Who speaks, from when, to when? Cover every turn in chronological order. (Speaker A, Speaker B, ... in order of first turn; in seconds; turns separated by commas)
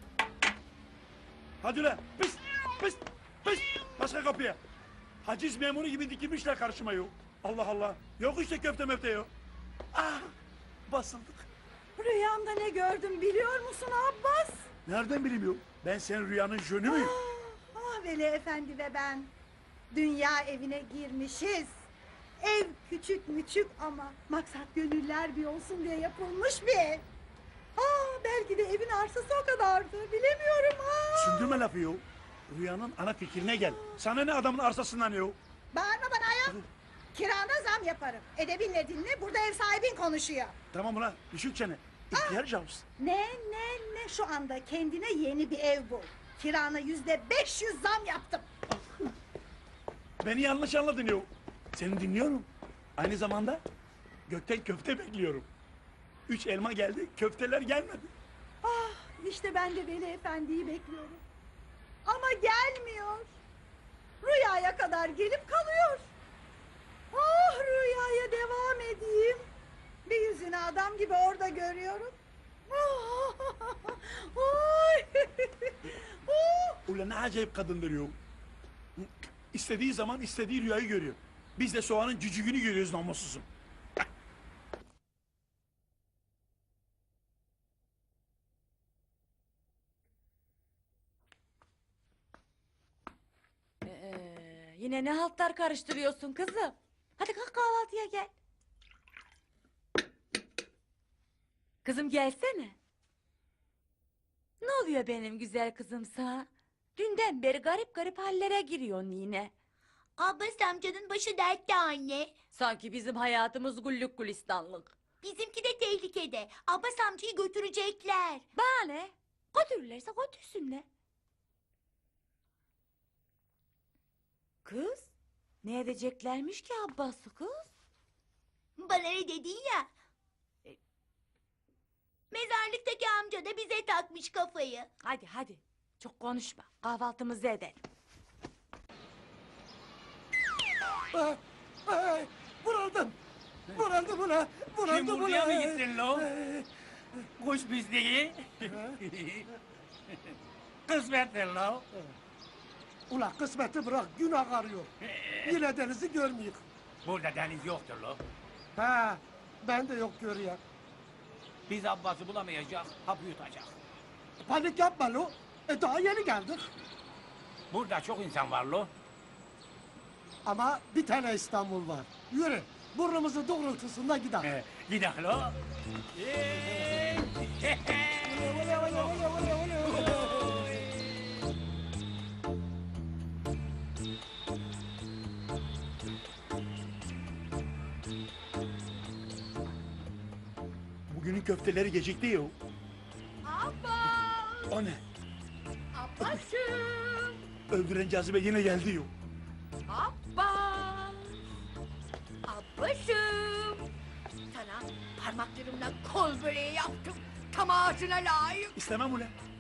Speaker A: 1.6-4.6, Speaker A: 5.2-9.3, Speaker A: 9.9-10.3, Speaker A: 10.9-11.5, Speaker B: 11.9-14.7, Speaker A: 14.8-17.1, Speaker B: 16.8-19.3, Speaker B: 19.9-21.9, Speaker B: 22.4-27.1, Speaker B: 27.8-31.6, Speaker A: 31.1-35.4, Speaker B: 33.4-33.8, Speaker B: 35.7-36.6, Speaker B: 37.1-40.5, Speaker A: 40.7-42.8, Speaker B: 43.0-48.5, Speaker A: 50.2-53.6, Speaker A: 54.3-55.5, Speaker A: 56.3-58.1, Speaker B: 58.6-61.2, Speaker B: 62.1-63.4, Speaker B: 64.2-66.1, Speaker B: 67.1-69.4, Speaker B: 70.1-72.1, Speaker B: 72.7-76.8, Speaker A: 76.9-78.2, Speaker A: 79.0-83.5, Speaker C: 93.8-98.3, Speaker C: 101.8-102.8, Speaker C: 104.6-109.5, Speaker D: 110.2-112.3, Speaker C: 112.5-115.0, Speaker D: 115.2-118.4, Speaker C: 118.5-120.8, Speaker C: 124.6-125.1, Speaker C: 125.6-127.7, Speaker D: 128.8-129.9, Speaker D: 132.3-134.9, Speaker C: 135.0-137.8, Speaker E: 141.1-143.1, Speaker E: 143.7-146.7, Speaker F: 144.8-146.3, Speaker F: 147.4-149.5, Speaker E: 148.6-149.0, Speaker F: 150.9-151.9, Speaker E: 153.1-154.9, Speaker F: 155.0-155.6, Speaker E: 155.4-156.6, Speaker F: 157.0-158.2, Speaker E: 158.8-160.6, Speaker F: 161.7-163.8, Speaker E: 164.4-166.7, Speaker F: 167.7-168.9, Speaker E: 170.4-174.5, Speaker F: 174.4-175.6, Speaker F: 176.2-180.7, Speaker E: 176.5-177.1, Speaker E: 178.2-180.6, Speaker A: 191.1-192.6, Speaker D: 193.5-194.7, Speaker A: 194.7-195.0, Speaker D: 195.9-197.3, Speaker A: 197.7-199.1, Speaker D: 199.9-201.2, Speaker D: 202.5-203.8, Speaker D: 204.5-208.8, Speaker A: 208.8-209.3